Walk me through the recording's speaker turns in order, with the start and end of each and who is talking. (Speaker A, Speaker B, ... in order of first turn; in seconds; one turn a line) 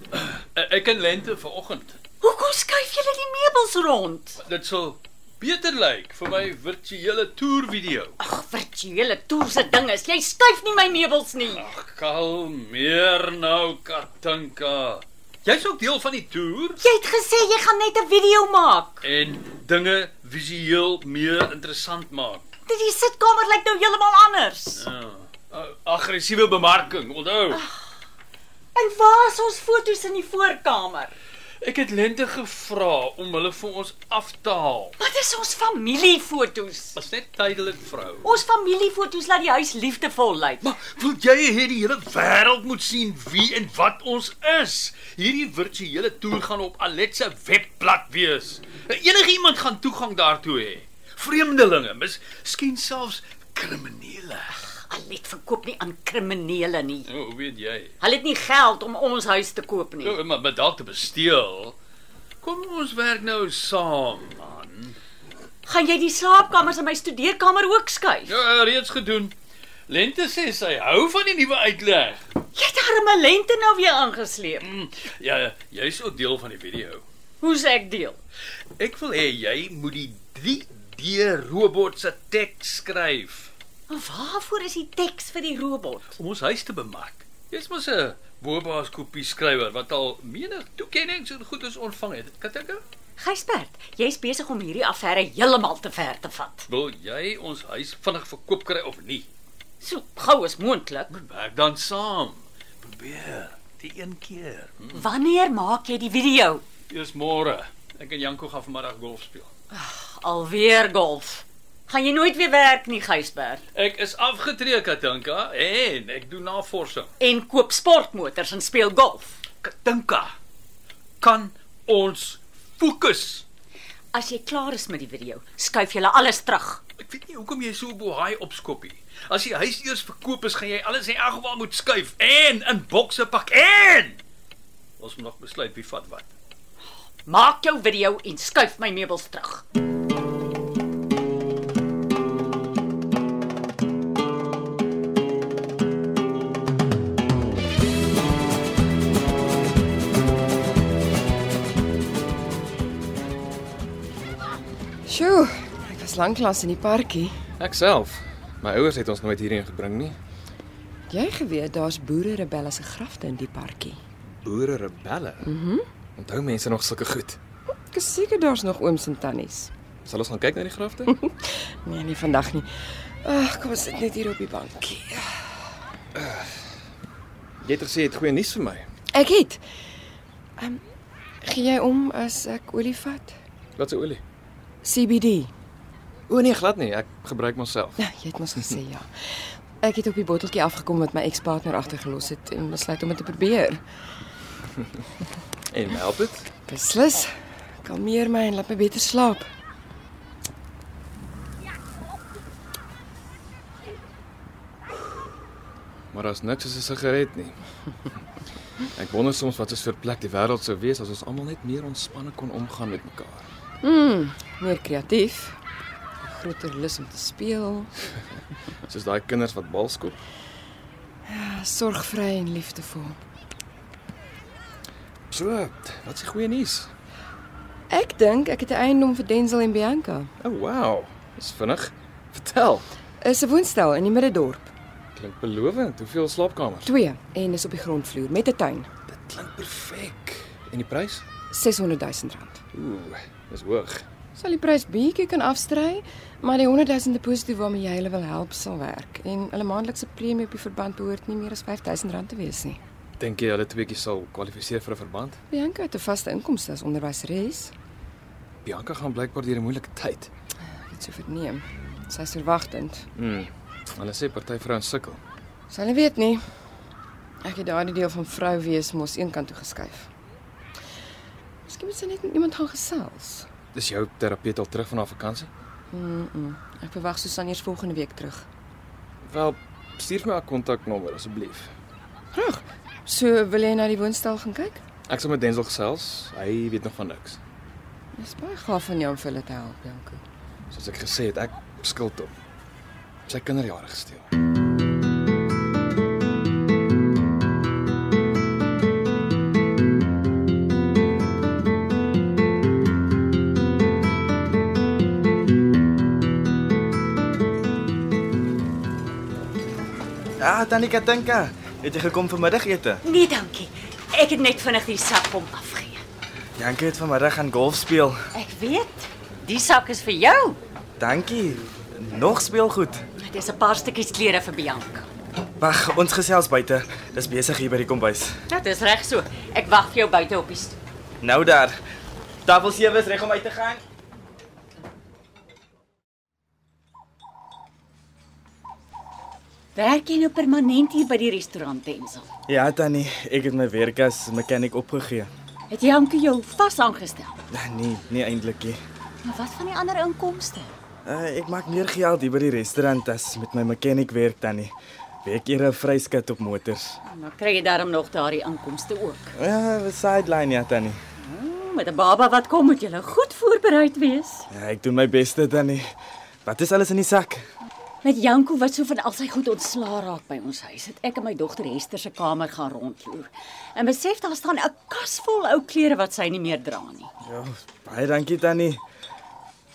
Speaker A: 0.1-2.0
Speaker B: 2.2-4.4
Speaker A: 4.4-8.2
Speaker B: 8.2-11.6
Speaker A: 11.5-16.8
Speaker B: 16.8-19.1
Speaker A: 19.0-22.5
Speaker B: 22.7-24.9
Speaker A: 24.8-27.6
Speaker B: 27.5-27.8
Speaker B: 28.8-31.1
Speaker A: 31.6-35.0
Speaker B: 35.0-37.0
Speaker A: 37.0-38.3
Speaker B: 38.2-40.7
Speaker A: 40.6-54.6
Speaker B: 54.7-57.1
Speaker A: 57.1-57.9
Speaker B: 58.0-60.2
Speaker A: 60.0-61.8
Speaker A: 62.4-65.0
Speaker B: 65.7-68.4
Speaker A: 68.3-69.3
Speaker A: 69.9-72.2
Speaker B: 72.5-74.7
Speaker A: 74.6-77.0
Speaker B: 77.4-78.2
Speaker A: 78.8-83.5
Speaker B: 83.9-86.2
Speaker A: 86.2-92.8
Speaker B: 93.2-96.7
Speaker A: 96.7-99.3
Speaker B: 99.8-101.2
Speaker A: 101.1-105.1
Speaker B: 104.9-106.6
Speaker A: 106.9-109.5
Speaker B: 109.7-113.6
Speaker A: 113.8-117.1
Speaker B: 117.2-119.4
Speaker A: 119.6-120.3
Speaker A: 121.2-123.5
Speaker B: 124.1-126.8
Speaker A: 127.0-134.2
Speaker A: 135.0-136.3
Speaker B: 137.3-139.6
Speaker C: 155.1-157.3
Speaker D: 157.6-160.2
Speaker C: 161.1-164.0
Speaker D: 164.4-165.5
Speaker C: 165.4-165.8
Speaker D: 166.2-167.4
Speaker C: 167.9-169.7
Speaker D: 170.1-171.2
Speaker C: 171.1-172.7
Speaker C: 173.2-175.3
Speaker D: 176.2-176.5
Speaker D: 177.6-178.8
Speaker C: 179.1-179.6
Speaker C: 181.4-183.3
Speaker D: 183.8-184.2
Speaker C: 184.8-185.5
Speaker D: 186.3-188.0
Speaker C: 188.0-189.1
Speaker C: 189.8-193.8
Speaker D: 195.7-196.5
Speaker C: 196.7-197.3
Speaker C: 197.8-199.5
Speaker D: 206.1-207.6
Speaker D: 209.0-213.5
Speaker C: 213.8-215.6
Speaker C: 216.2-217.9
Speaker D: 218.9-220.2
Speaker C: 221.3-223.2
Speaker D: 225.3-226.9
Speaker C: 227.9-230.3
Speaker D: 230.4-232.9
Speaker C: 233.2-234.7
Speaker D: 235.2-236.9
Speaker C: 236.9-238.9
Speaker D: 239.1-241.2
Speaker C: 241.5-242.6
Speaker D: 242.7-244.0
Speaker C: 244.4-252.8
Speaker D: 253.2-255.4
Speaker C: 255.5-257.7
Speaker D: 258.6-260.3
Speaker C: 260.9-263.1
Speaker D: 263.2-265.2
Speaker C: 265.7-266.4
Speaker C: 267.4-270.1
Speaker C: 271.7-273.5
Speaker D: 273.7-275.5
Speaker C: 275.9-278.5
Speaker D: 279.2-281.7
Speaker C: 282.3-284.8
Speaker D: 285.1-287.4
Speaker C: 288.2-290.2
Speaker D: 290.7-292.3
Speaker D: 293.3-294.3
Speaker E: 310.4-313.0
Speaker B: 313.0-316.0
Speaker E: 316.6-318.2
Speaker B: 318.3-320.6
Speaker E: 321.0-323.0
Speaker B: 323.2-325.1
Speaker E: 325.6-328.3
Speaker B: 328.5-330.8
Speaker E: 331.2-331.7
Speaker E: 332.5-333.8
Speaker B: 339.8-342.3
Speaker E: 342.5-345.3
Speaker B: 345.7-347.4
Speaker E: 347.5-348.8
Speaker B: 349.2-350.8
Speaker E: 351.1-354.7
Speaker E: 355.2-357.0
Speaker B: 357.1-359.3
Speaker E: 359.4-361.0
Speaker B: 361.2-364.5
Speaker E: 364.5-365.8
Speaker E: 366.4-367.4
Speaker B: 368.0-377.1
Speaker E: 377.2-378.8